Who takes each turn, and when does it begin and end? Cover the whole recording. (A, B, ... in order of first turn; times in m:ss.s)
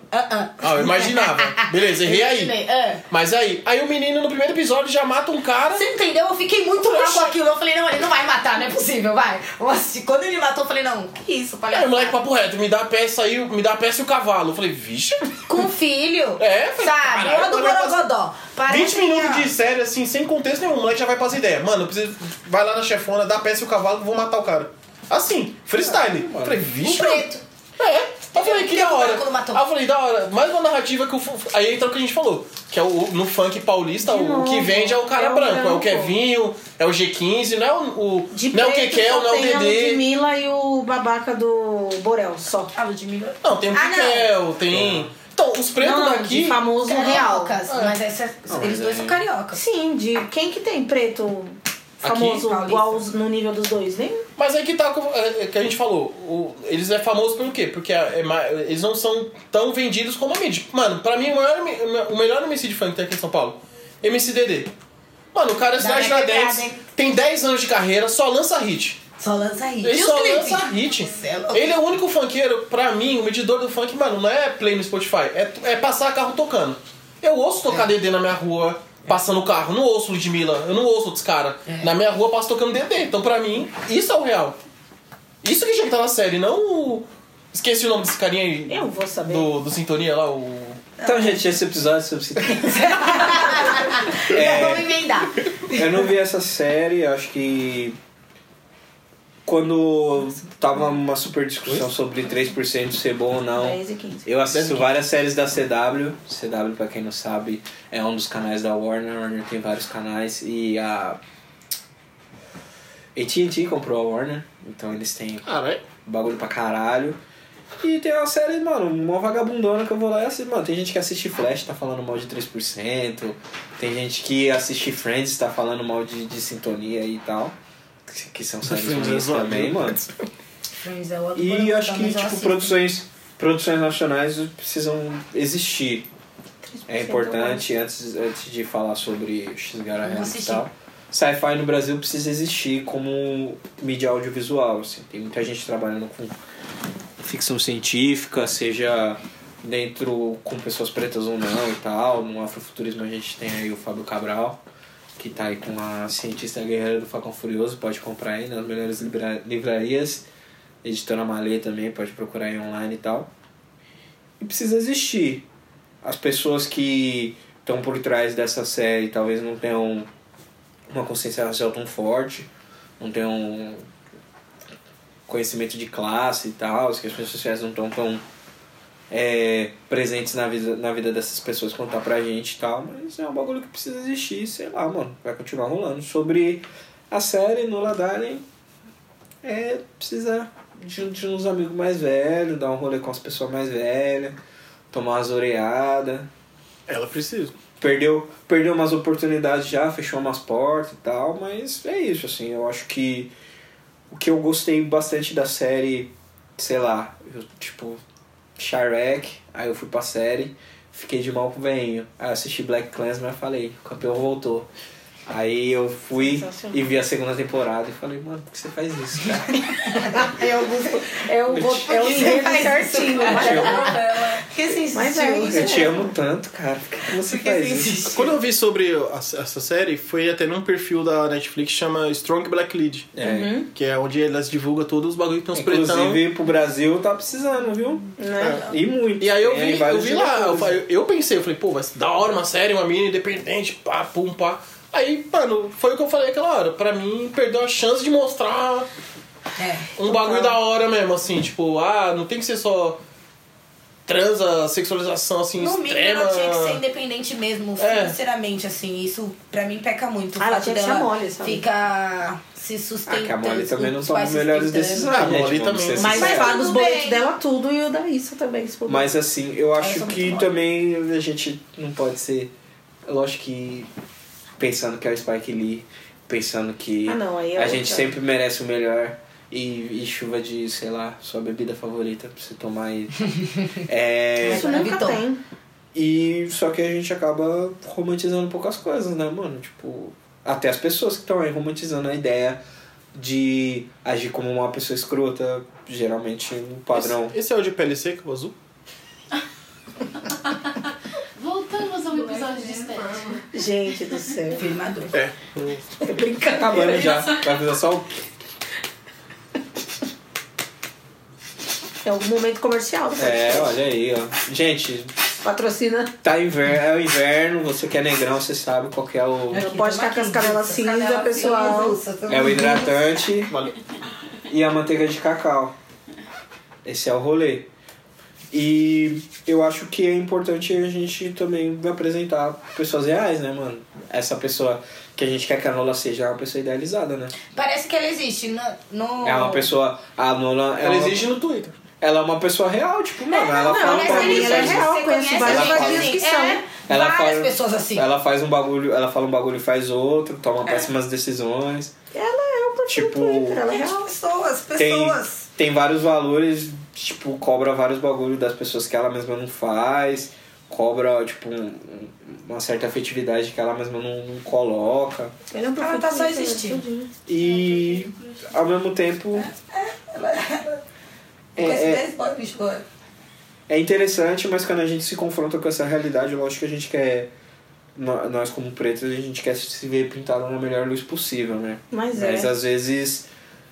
0:00.1-0:03.0 A
0:00.6-0:02.5 B
0:03.1-0:05.9 B
0:05.7-0:12.2 A
0:06.8-0:07.3 B
0:11.7-0:15.4 B
0:15.5-0:19.5 A
0:16.4-0:18.0 B
0:18.7-0:27.3 B
0:25.8-0:26.6 C
0:26.8-0:27.4 A
0:27.8-0:40.0 B
0:28.3-0:29.6 A
0:34.0-0:36.2 D
0:38.3-0:42.7 D
0:42.7-0:44.3 A
0:43.4-0:46.6 B
0:44.7-0:45.1 C
0:45.8-0:47.6 D
0:46.9-0:49.6 A
0:48.5-0:49.2 C
0:49.5-0:54.2 D
0:52.2-0:53.0 A
0:54.4-1:04.7 B
1:05.3-1:09.0 B
1:05.8-1:06.8 A
1:09.2-1:11.8 A
1:09.8-1:24.6 B
1:21.7-1:21.9 A
1:25.4-1:30.8 B
1:28.7-1:29.5 D
1:31.0-1:33.3 C
1:32.7-1:35.4 A
1:34.3-1:35.0 C
1:35.7-1:38.0 C
1:39.5-1:51.2 C
1:43.6-1:44.3 D
1:44.5-1:44.9 B
1:53.2-1:55.5 C
1:55.4-1:55.8 B
1:56.0-1:57.2 C
1:57.8-2:07.6 C
2:08.1-2:10.0 C
2:08.7-2:10.1 B
2:10.8-2:12.8 A
2:11.4-2:16.1 C
2:16.6-2:17.7 D
2:16.9-2:26.4 C
2:20.0-2:20.6 A
2:27.2-2:34.6 C
2:35.2-2:40.3 C
2:40.8-2:43.3 C
2:44.4-2:45.5 C
2:46.0-2:50.1 C
2:50.9-2:52.5 C
2:53.0-2:53.9 C
2:55.3-2:58.2 C
2:59.1-3:08.4 C
3:09.4-3:14.4 C
3:14.9-3:16.3 C
3:16.9-3:17.6 B
3:17.8-3:23.3 C
3:24.1-3:28.0 C
3:28.6-3:34.7 C
3:35.3-3:39.7 C
3:36.1-3:36.8 D
3:39.8-3:41.2 A
3:41.0-3:44.0 D
3:41.5-3:42.5 C
3:41.8-3:45.9 A
3:43.2-3:43.9 C
3:43.6-3:44.4 E
3:44.9-3:46.1 D
3:45.4-3:48.1 C
3:47.2-3:48.4 A
3:48.1-3:53.1 B
3:53.1-3:53.5 C
3:53.2-3:53.7 D
3:53.7-3:56.2 B
3:55.5-4:00.8 C
3:58.2-3:58.7 D
3:58.4-4:08.9 B
4:09.6-4:10.0 A
4:10.0-4:13.0 B
4:10.1-4:10.5 D
4:14.1-4:16.8 B
4:15.6-4:25.2 A
4:17.8-4:18.2 B
4:20.4-4:21.6 D
4:23.1-4:26.6 C
4:25.1-4:26.4 B
4:26.0-4:29.1 D
4:26.1-4:27.2 A
4:28.9-4:32.5 C
4:29.8-4:30.5 A
4:33.1-4:33.9 C
4:34.6-4:44.9 C
4:37.1-4:38.2 D
4:44.4-4:45.2 A
4:44.4-4:45.4 D
4:45.9-4:52.6 C
4:53.1-4:57.4 C
4:56.9-4:58.6 B
5:01.4-5:03.4 E
5:02.2-5:03.0 A
5:03.5-5:04.6 D
5:04.5-5:05.2 A
5:05.1-5:05.8 B
5:06.0-5:07.3 D
5:06.5-5:08.2 C
5:12.0-5:13.8 D
5:13.2-5:15.1 C
5:15.4-5:16.1 D
5:16.2-5:19.7 C
5:19.5-5:23.0 A
5:19.5-5:22.0 D
5:22.3-5:23.5 C
5:24.5-5:25.8 C
5:26.8-5:27.7 C
5:28.5-5:37.3 C
5:37.5-5:39.7 A
5:39.2-5:41.3 C
5:40.8-5:41.8 B
5:42.0-5:46.2 C
5:43.3-5:48.1 A
5:43.5-5:46.6 D
5:46.9-5:51.9 C
5:52.1-5:54.1 D
5:52.9-5:53.6 C
5:53.6-5:55.4 A
5:54.8-6:05.4 C
6:05.5-6:07.1 D
6:05.8-6:06.8 A
6:07.3-6:09.5 C
6:07.3-6:08.5 E
6:09.3-6:10.8 A
6:11.6-6:12.1 C
6:11.6-6:12.9 A
6:13.7-6:17.3 C
6:18.0-6:23.3 C
6:21.9-6:22.5 D